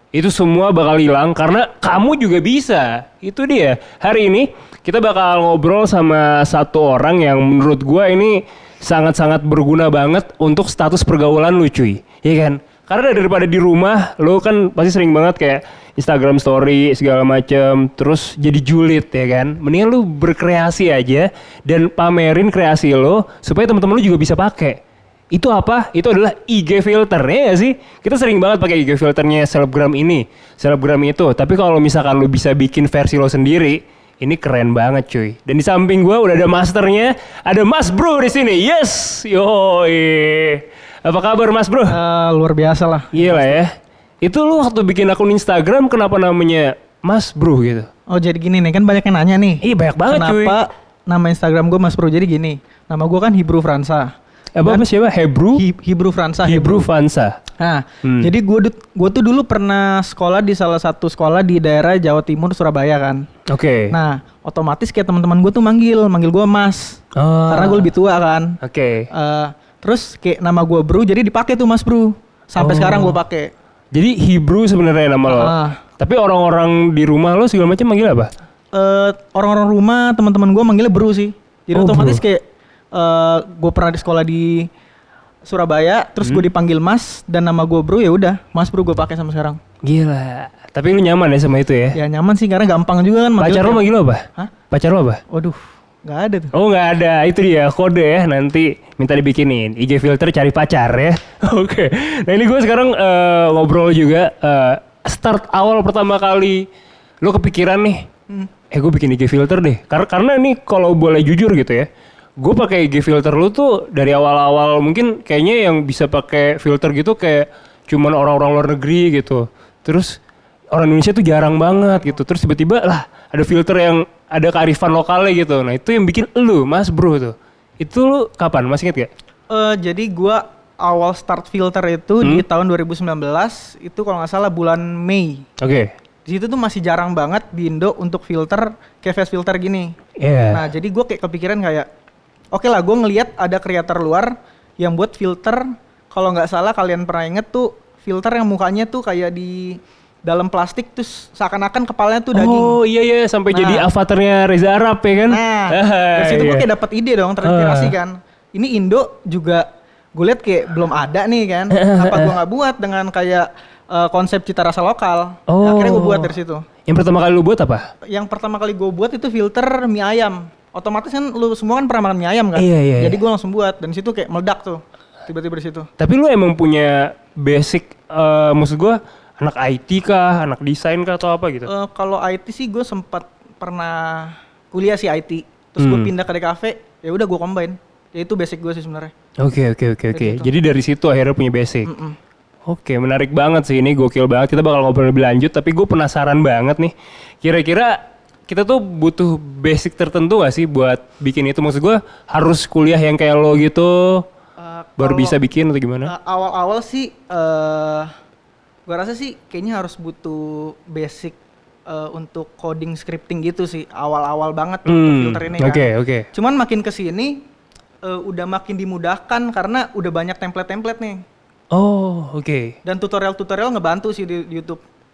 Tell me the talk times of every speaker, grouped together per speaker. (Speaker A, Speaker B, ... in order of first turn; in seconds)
Speaker A: 0.1-24.8, 25.3-42.0, 43.1-47.9, 49.6-50.6, 54.6-55.6, 56.4-57.4, 58.0-58.3, 63.5-64.0, 67.2-67.9, 68.6-69.1, 72.6-73.2, 73.9-78.3, 81.8-82.2, 89.8-92.0, 93.4-95.2, 96.5-106.7, 107.2-108.1, 108.7-111.9, 112.4-120.2, 120.7-129.1, 135.6-135.9, 140.2-140.7, 152.3-156.7, 157.4-157.9, 161.7-162.4, 165.5-166.3, 166.9-167.9, 172.6-173.2, 176.0-181.7, 185.8-186.1, 189.4-191.9, 192.7-204.2, 205.0-206.1, 214.9-216.3, 221.7-222.8
Speaker B: 41.9-43.6, 48.1-54.1, 55.6-56.9, 57.6-63.3, 63.9-68.6, 69.1-73.5, 75.3-75.8, 78.7-84.7, 85.5-89.6, 91.9-93.8, 95.3-96.5, 129.5-135.5, 136.3-139.9, 140.5-141.9, 142.5-152.8, 153.5-153.9, 155.3-166.7, 168.1-175.9, 181.7-189.1, 190.1-190.5, 191.8-192.2, 204.6-205.4, 206.1-208.1, 208.9-217.5, 218.0-221.2, 222.8-224.8